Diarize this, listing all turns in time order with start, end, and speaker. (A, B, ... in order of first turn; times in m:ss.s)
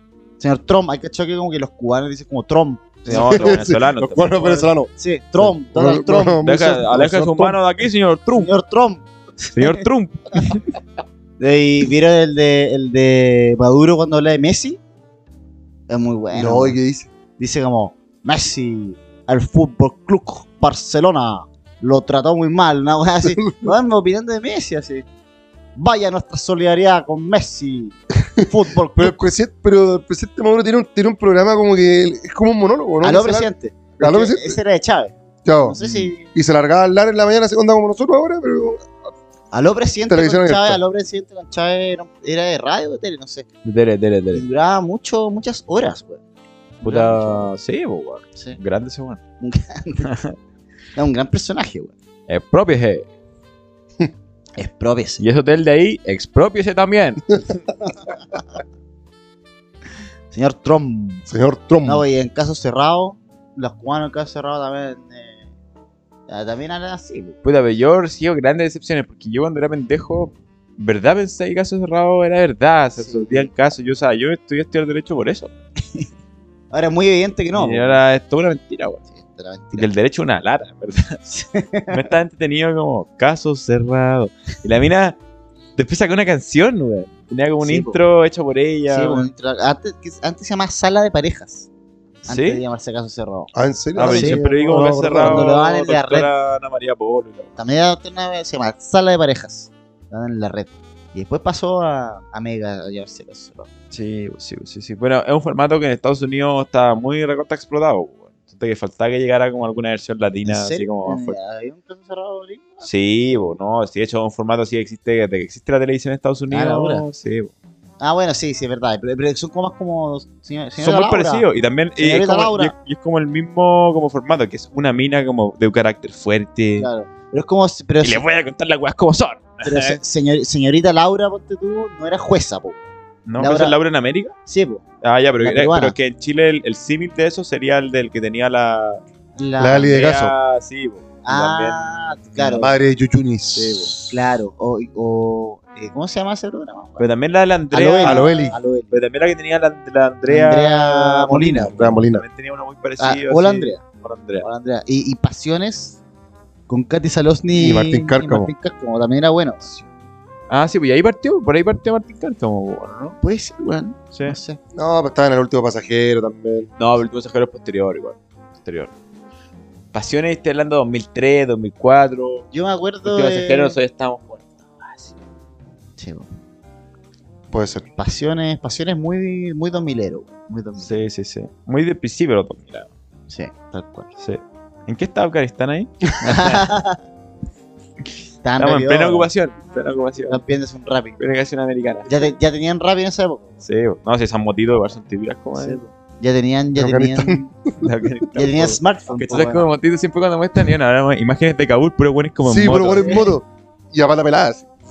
0:00.4-0:03.7 A
0:03.1-0:04.7 B
0:03.1-0:04.9 C
0:04.4-0:06.4 A
0:05.7-0:07.6 C
0:06.4-0:08.5 B
0:08.4-0:09.8 A
0:09.6-0:10.6 B
0:11.4-0:14.8 A
0:15.9-0:16.8 A
0:16.3-0:17.1 C
0:17.4-0:25.1 A
0:23.3-0:23.7 C
0:25.8-0:29.2 A
0:29.0-0:34.6 C
0:33.0-0:36.3 A
0:35.4-0:38.9 C
0:35.8-0:36.1 B
0:39.5-0:43.5 A
0:40.1-0:40.8 C
0:43.6-0:44.5 B
0:44.3-0:46.2 A
0:46.8-0:47.5 A
0:46.8-0:49.2 B
0:49.4-0:50.1 A
0:50.0-0:50.4 B
0:51.0-0:51.9 A
0:52.3-0:53.1 B
0:54.6-0:55.2 A
0:55.2-0:57.4 B
1:00.3-1:01.3 A
1:01.3-1:02.0 C
1:01.8-1:05.4 A
1:06.3-1:07.4 A
1:07.4-1:15.5 B
1:13.0-1:13.5 A
1:16.7-1:18.0 A
1:17.5-1:19.0 B
1:19.1-1:19.9 A
1:19.7-1:21.2 B
1:21.3-1:22.0 A
1:21.9-1:25.2 B
1:25.8-1:29.3 B
1:27.6-1:28.0 A
1:28.9-1:31.7 A
1:32.2-1:34.4 A
1:32.3-1:32.6 B
1:33.5-1:35.5 C
1:34.0-1:37.6 B
1:35.1-1:36.3 A
1:37.6-1:43.7 A
1:43.9-1:51.4 B
1:50.5-1:52.9 A
1:52.8-1:57.5 B
1:56.5-1:57.0 A
1:58.0-2:01.5 A
2:00.8-2:06.9 B
2:02.0-2:02.7 A
2:06.8-2:08.2 A
2:08.0-2:10.0 B
2:09.6-2:12.8 A
2:13.2-2:14.4 B
2:13.4-2:13.8 A
2:14.5-2:14.8 A
2:15.0-2:19.0 B
2:15.4-2:16.0 A
2:19.4-2:19.9 A
2:19.6-2:20.3 C
2:19.8-2:21.9 B
2:21.2-2:22.7 A
2:22.5-2:24.1 C
2:23.6-2:23.9 B
2:23.9-2:27.1 A
2:27.0-2:28.3 B
2:27.7-2:28.9 A
2:28.0-2:28.6 C
2:28.9-2:34.5 B
2:30.3-2:31.8 A
2:31.7-2:32.2 C
2:33.0-2:33.8 A
2:34.4-2:36.0 A
2:36.7-2:39.7 A
2:37.6-2:38.5 C
2:40.5-2:43.2 B
2:43.2-2:44.6 A
2:44.8-2:46.7 C
2:46.8-2:48.9 B
2:49.9-2:52.5 B
2:52.5-2:53.8 A
2:53.0-2:55.1 B
2:56.0-2:56.3 A
2:57.5-2:57.9 C
2:58.0-3:01.0 A
3:00.8-3:02.9 B
3:03.3-3:04.1 A
3:04.2-3:06.7 B
3:06.2-3:07.0 A
3:08.4-3:09.3 A
3:08.6-3:10.4 B
3:10.3-3:11.2 A
3:11.2-3:12.3 B
3:12.1-3:13.5 A
3:13.6-3:15.8 B
3:15.6-3:17.5 A
3:16.8-3:17.8 C
3:17.8-3:23.3 B
3:18.4-3:19.7 A
3:22.4-3:24.7 C
3:23.0-3:23.3 A